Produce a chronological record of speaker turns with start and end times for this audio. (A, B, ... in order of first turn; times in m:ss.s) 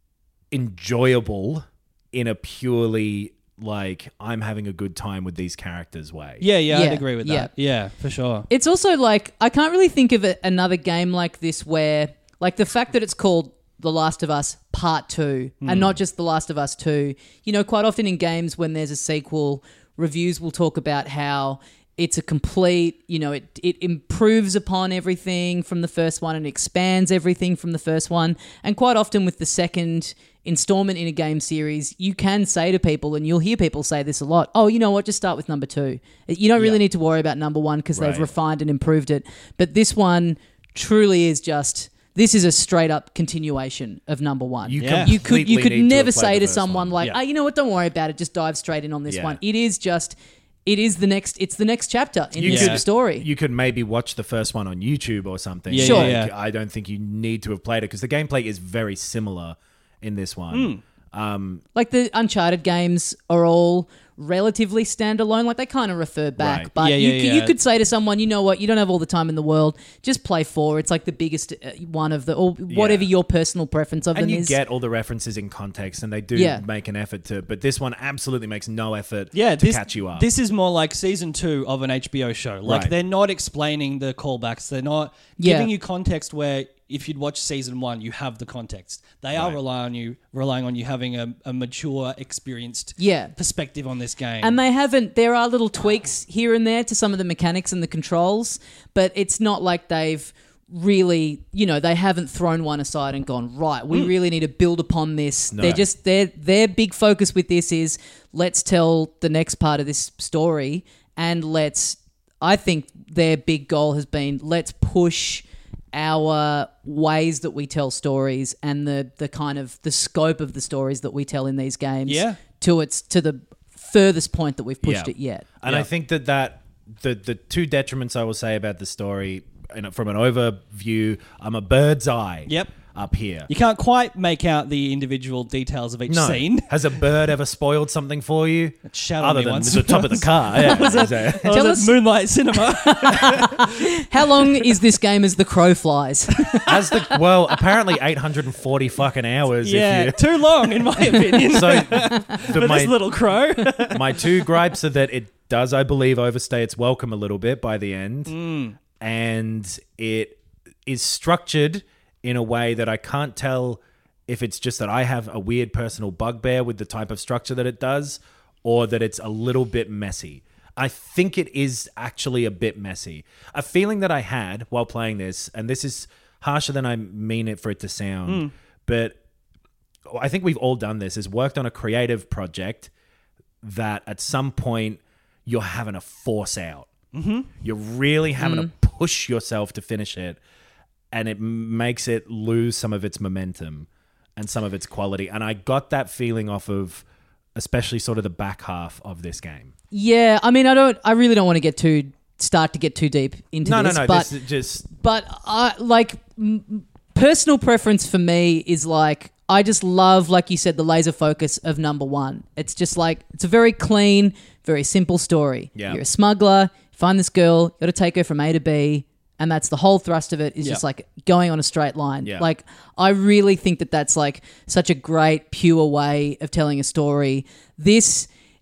0:00.5-0:06.4 A
0:06.4-0:08.5 B
0:06.7-0:07.5 C
0:08.5-0:53.3 C
0:15.6-0:15.9 B
0:38.0-0:38.3 A
0:44.6-0:47.0 A
0:44.8-0:45.1 B
0:49.1-0:49.4 A
0:52.4-1:01.6 A
0:52.4-0:52.8 B
0:55.7-0:56.3 B
0:55.8-0:56.1 C
1:00.5-1:00.8 B
1:01.7-1:14.6 C
1:06.4-1:06.7 A
1:06.8-1:07.5 B
1:12.7-1:13.1 A
1:14.1-1:20.2 A
1:16.3-1:16.6 C
1:19.3-1:34.6 B
1:22.6-1:22.9 A
1:25.4-1:25.7 C
1:29.3-1:29.6 A
1:33.0-1:33.3 C
1:34.4-2:05.5 C
1:45.5-1:45.8 A
2:02.1-2:02.4 B
2:04.8-2:13.5 A
2:12.5-2:12.8 B
2:13.5-2:17.0 B
2:16.1-2:21.6 A
2:18.9-2:23.7 B
2:21.5-2:22.0 C
2:22.6-2:26.7 C
2:26.7-2:30.2 A
2:29.6-2:34.4 B
2:31.4-2:33.0 A
2:33.9-2:38.3 A
2:38.3-2:38.8 B
2:39.0-2:59.2 A
2:58.3-2:58.5 B
3:00.1-3:02.9 A
3:03.6-3:06.9 A
3:07.1-3:07.5 B
3:07.6-3:10.4 A
3:08.4-3:08.7 C
3:11.1-3:19.7 A
3:19.9-3:24.3 C
3:23.6-3:24.9 A
3:24.9-3:48.3 C
3:35.7-3:36.0 A